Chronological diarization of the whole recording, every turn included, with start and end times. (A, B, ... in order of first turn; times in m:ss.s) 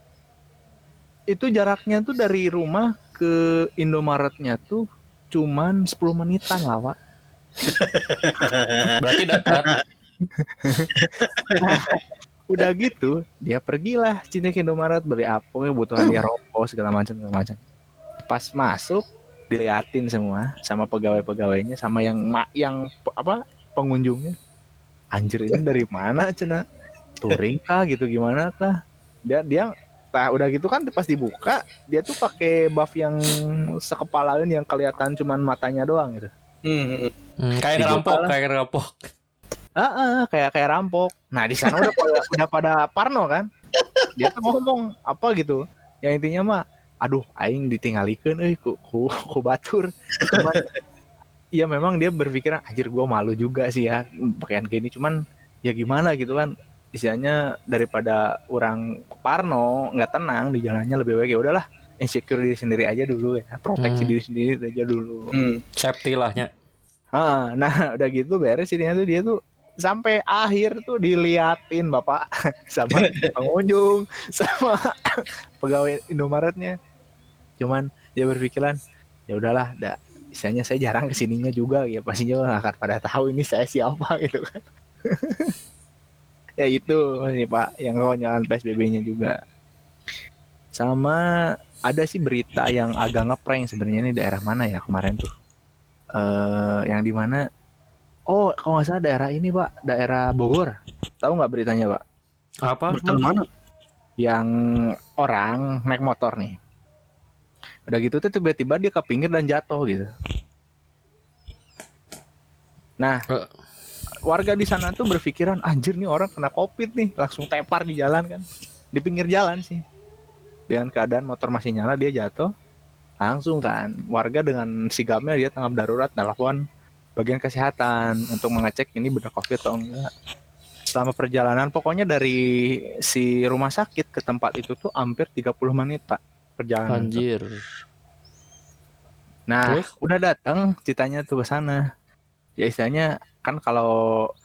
0:01.3-0:07.0 A
0:07.6-0:09.8 B
0:09.0-0:09.7 C
0:10.4-0:11.1 A
0:10.9-0:12.0 B
0:11.6-0:17.6 A
0:18.3-0:24.4 A
0:25.1-0:26.6 A
0:27.2-0:28.7 A
0:29.3-0:36.3 A
0:36.6-0:37.1 B
0:37.4-0:39.0 C
0:37.8-0:38.4 A
0:39.8-0:43.5 A
0:41.7-0:42.3 B
0:43.8-0:44.4 B
0:44.2-0:50.6 A
0:50.2-0:50.7 B
0:51.6-1:05.3 A
1:03.8-1:04.1 C
1:05.3-1:05.6 B
1:05.8-1:06.5 C
1:07.2-1:16.8 A
1:13.0-1:13.3 B
1:17.6-1:18.8 A
1:19.3-1:25.5 A
1:26.6-1:29.3 A
1:30.8-1:31.2 A
1:31.9-1:35.3 A
1:36.2-1:37.4 A
1:38.3-1:42.0 A
1:42.6-1:43.2 C
1:42.9-1:43.4 B
1:44.2-1:44.5 A
1:45.2-1:46.6 A
1:47.9-1:50.1 A
1:54.3-1:58.4 A
1:59.0-1:59.8 A
2:00.7-2:02.5 A
2:03.2-2:06.6 A
2:07.2-2:10.1 A
2:10.9-2:12.4 A
2:13.1-2:17.2 A
2:16.9-2:17.6 C
2:19.5-2:21.8 A
2:22.6-2:24.0 A